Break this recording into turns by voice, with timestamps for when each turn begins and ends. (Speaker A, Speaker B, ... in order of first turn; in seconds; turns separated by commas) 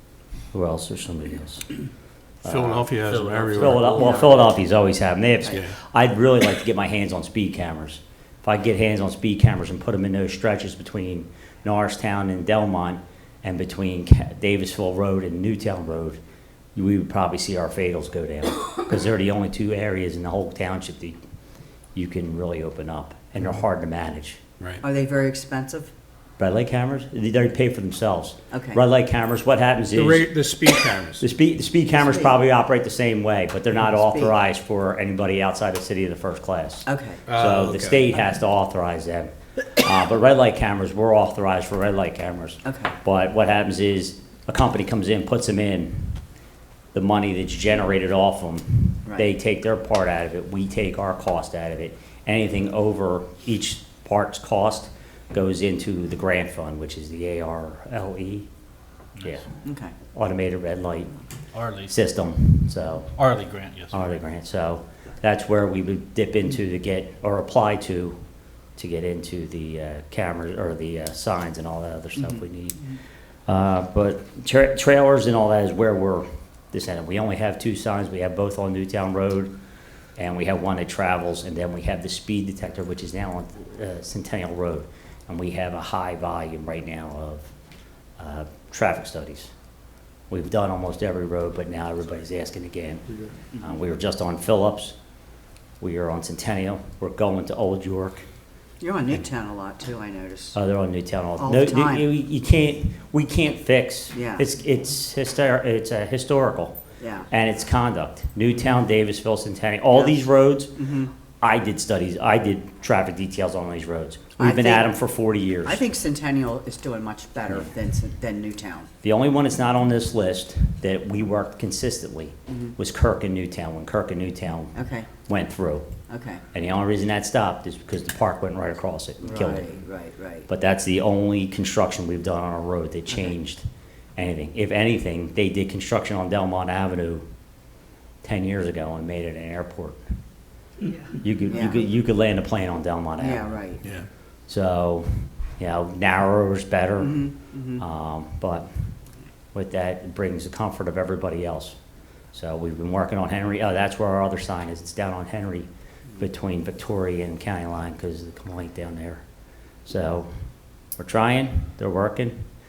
Speaker A: 0.5-1.7, Speaker A: 2.4-2.9, Speaker B: 2.4-3.8, Speaker C: 3.0-4.4, Speaker A: 3.5-16.2, Speaker D: 3.9-4.3, Speaker B: 5.5-5.8, Speaker A: 16.7-21.2, Speaker A: 21.9-24.4, Speaker D: 24.8-25.9, Speaker A: 26.4-30.3, Speaker D: 28.5-28.8, Speaker B: 29.9-31.2, Speaker A: 31.2-46.2, Speaker D: 32.0-32.3, Speaker D: 33.9-34.3, Speaker D: 36.9-37.2, Speaker B: 37.2-38.1, Speaker D: 42.6-42.9, Speaker A: 46.9-58.5, Speaker A: 59.2-59.5, Speaker D: 59.6-59.9, Speaker A: 60.1-61.2, Speaker C: 61.5-61.9, Speaker A: 61.8-63.2, Speaker C: 63.1-64.0, Speaker A: 63.9-68.2, Speaker A: 68.8-72.9, Speaker A: 73.5-79.5, Speaker A: 80.2-87.5, Speaker A: 88.2-89.5, Speaker A: 90.3-95.0, Speaker A: 95.8-98.2, Speaker D: 98.8-100.5, Speaker A: 100.5-106.8, Speaker D: 101.4-102.1, Speaker D: 104.1-104.4, Speaker D: 107.0-107.3, Speaker A: 107.3-115.8, Speaker D: 110.8-111.1, Speaker D: 114.4-114.9, Speaker D: 115.6-118.9, Speaker A: 119.0-124.7, Speaker D: 124.8-125.1, Speaker A: 125.2-125.9, Speaker D: 126.1-126.4, Speaker A: 126.5-129.8, Speaker D: 129.2-130.5, Speaker A: 130.5-133.6, Speaker A: 134.2-137.2, Speaker A: 138.2-140.0, Speaker A: 141.1-143.5, Speaker D: 141.5-141.8, Speaker D: 143.2-143.8, Speaker A: 144.5-148.9, Speaker D: 147.0-147.8, Speaker A: 149.5-151.8, Speaker A: 152.3-159.2, Speaker A: 159.8-160.3, Speaker A: 161.0-162.4